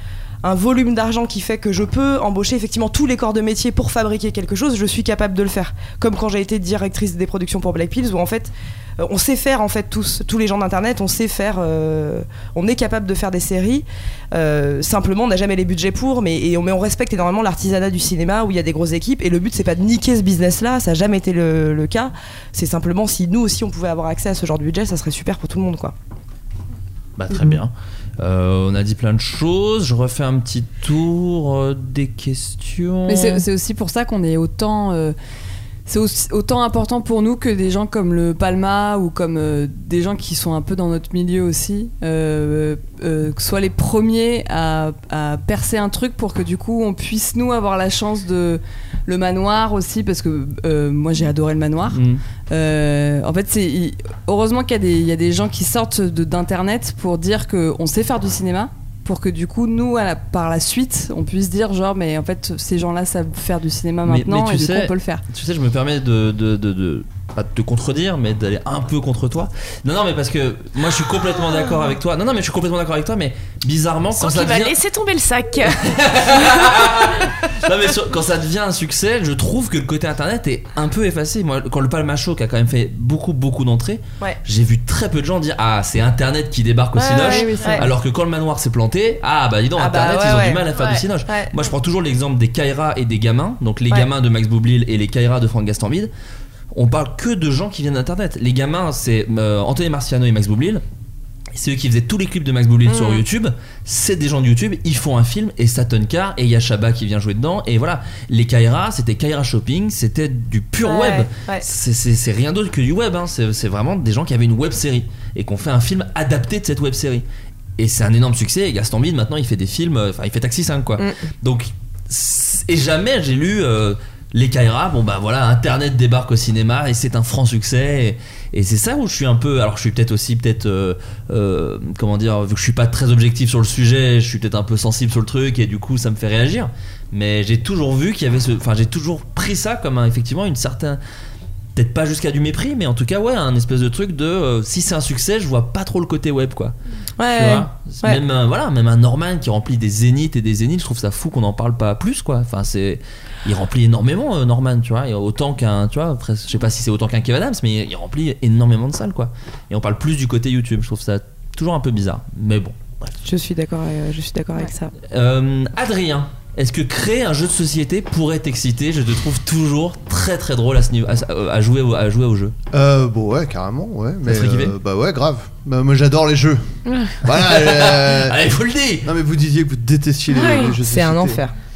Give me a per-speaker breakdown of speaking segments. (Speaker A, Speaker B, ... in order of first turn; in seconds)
Speaker A: 0.4-25.9, 87.0-87.9, 89.8-90.7, 91.2-91.5, 102.8-103.2, 110.8-111.6, 147.2-148.2, 163.2-164.9, 180.6-181.5
Speaker B: 27.2-33.4, 51.9-52.2, 64.0-74.8, 75.7-96.1, 96.7-100.8, 101.5-117.2, 117.8-141.0, 141.7-146.7, 147.3-163.1, 165.1-172.5, 174.2-174.7, 177.3-179.1
Speaker C: 33.1-35.1, 35.9-65.2, 87.2-87.9
Speaker D: 74.2-75.9, 87.1-87.7, 90.7-91.0, 176.9-177.1, 180.3-180.7
Speaker E: 172.7-176.7, 177.2-178.4, 179.0-181.4